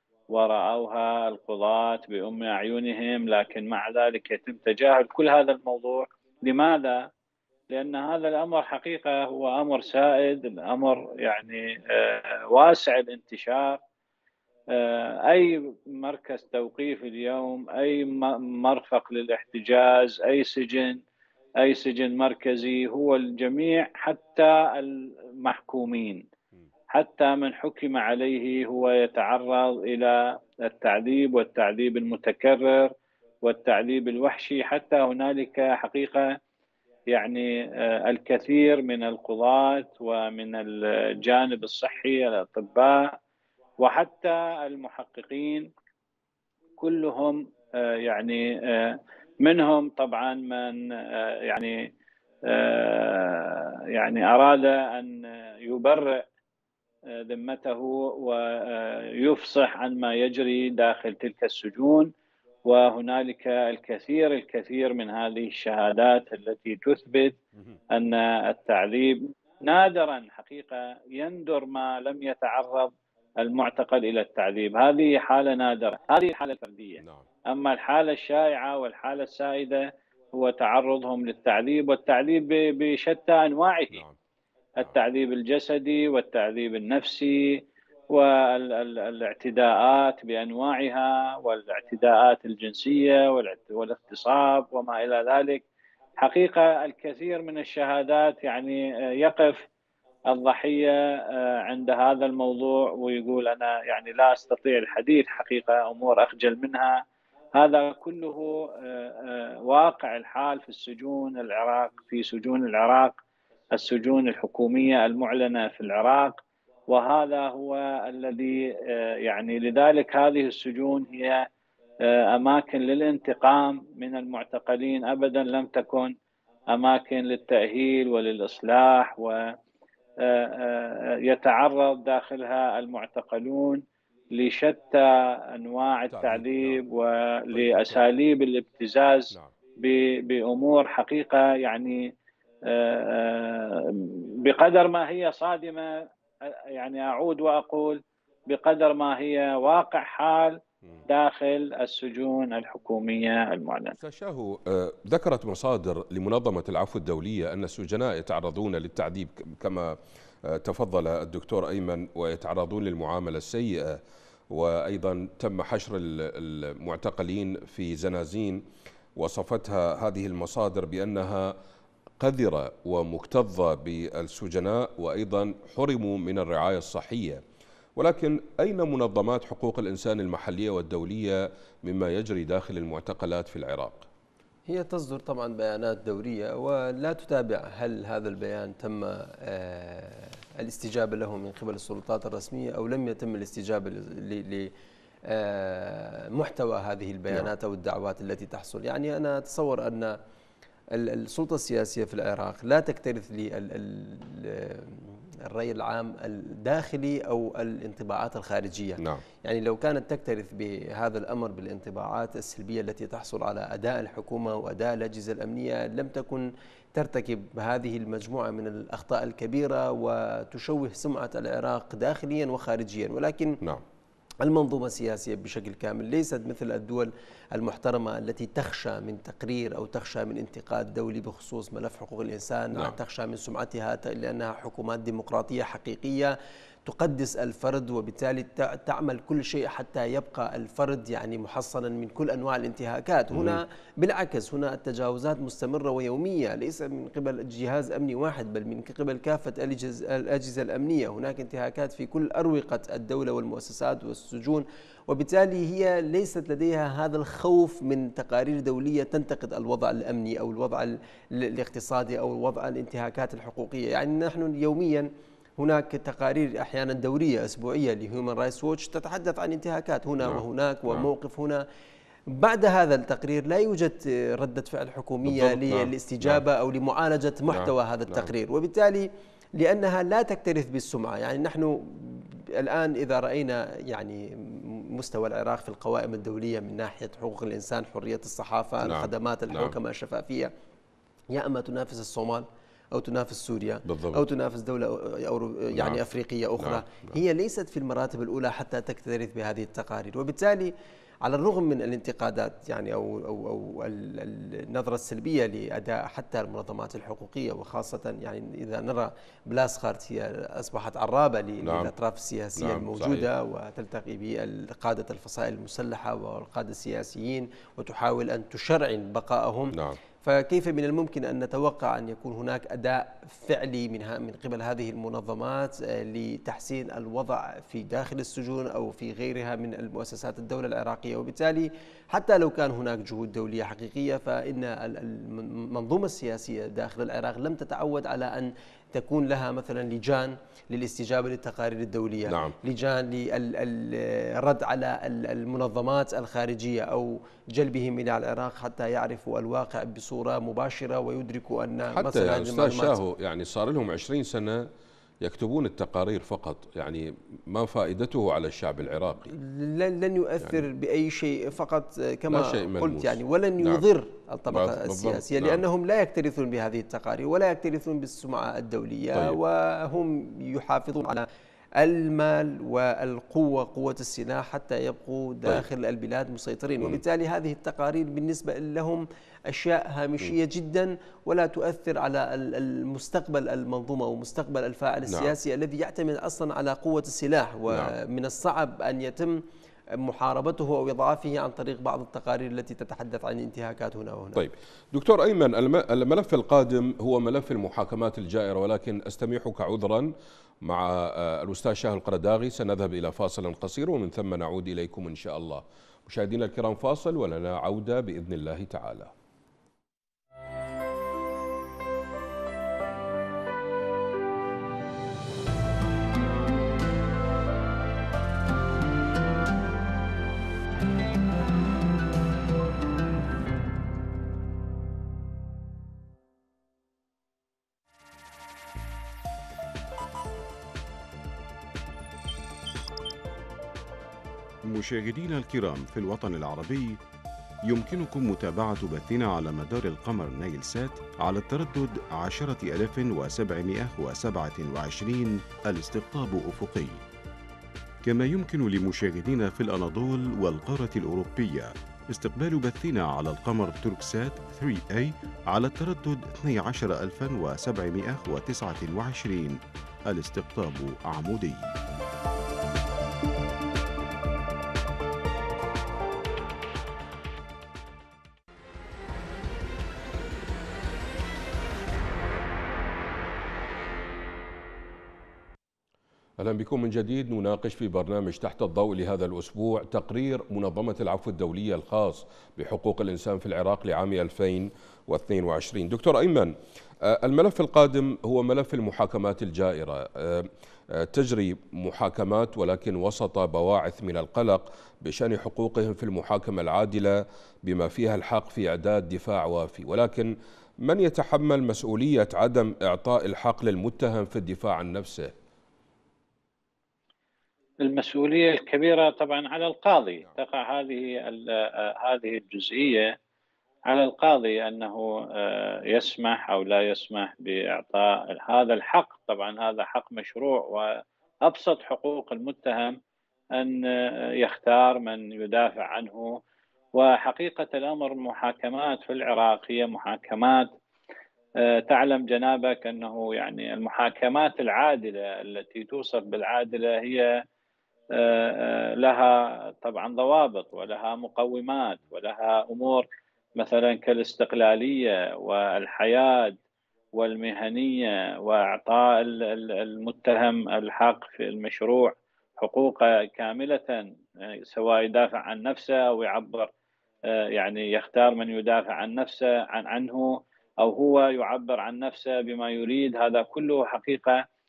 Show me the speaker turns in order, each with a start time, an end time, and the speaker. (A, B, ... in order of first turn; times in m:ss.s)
0:00.3-0:07.0 A
0:07.7-0:13.8 A
0:14.7-0:21.0 A
0:21.6-0:26.2 A
0:26.9-0:32.9 A
0:33.4-0:36.4 A
0:37.1-0:43.1 A
0:43.8-0:45.7 A
0:46.8-0:51.8 A
0:52.5-0:56.2 A
0:57.1-1:02.1 A
1:02.7-1:07.4 A
1:07.9-1:24.0 A
1:17.0-1:17.3 B
1:24.8-1:35.6 A
1:36.2-1:39.6 A
1:40.3-1:47.0 A
1:47.6-1:53.2 A
1:53.7-1:56.4 A
1:56.9-2:01.4 A
2:02.0-2:06.2 A
2:06.7-2:09.5 A
2:10.2-2:13.8 A
2:14.3-2:22.1 A
2:16.1-2:16.8 B
2:17.5-2:18.0 B
2:22.7-2:34.0 A
2:34.0-2:48.6 B
2:49.2-2:51.6 B
2:52.2-2:57.4 B
2:58.0-3:04.1 B
3:04.7-3:14.7 C
3:15.3-3:20.2 C
3:20.9-3:43.6 C
3:44.4-3:56.3 C
3:56.9-4:31.6 C
4:03.3-4:03.6 B
4:30.2-4:31.1 B
4:32.3-4:50.5 C
4:35.2-4:36.4 B
4:37.5-4:38.3 B
4:48.8-4:49.8 B
4:51.3-5:00.7 C
4:53.8-4:54.2 B
4:55.7-4:56.0 B
4:56.6-4:57.2 B
5:01.2-5:53.0 C
5:11.6-5:11.9 B
5:12.6-5:13.3 B
5:19.7-5:20.0 B
5:42.3-5:42.6 B
5:51.9-5:54.7 B
5:55.2-5:59.3 B
5:59.3-6:11.3 C
6:02.3-6:03.8 B
6:04.5-6:05.6 B
6:11.8-6:29.4 C
6:30.0-6:34.4 C
6:34.4-6:40.1 B
6:40.6-6:49.1 B
7:14.7-7:17.0 D
7:17.7-7:27.0 D
7:28.0-7:41.7 D
7:56.4-8:25.3 B
8:27.8-8:33.1 A
8:33.9-8:43.0 A
8:43.6-8:46.4 A
8:47.0-8:50.7 A
8:51.6-8:57.4 A
8:58.1-9:03.1 A
9:03.6-9:06.6 A
9:07.2-9:16.7 A
9:17.3-9:24.4 A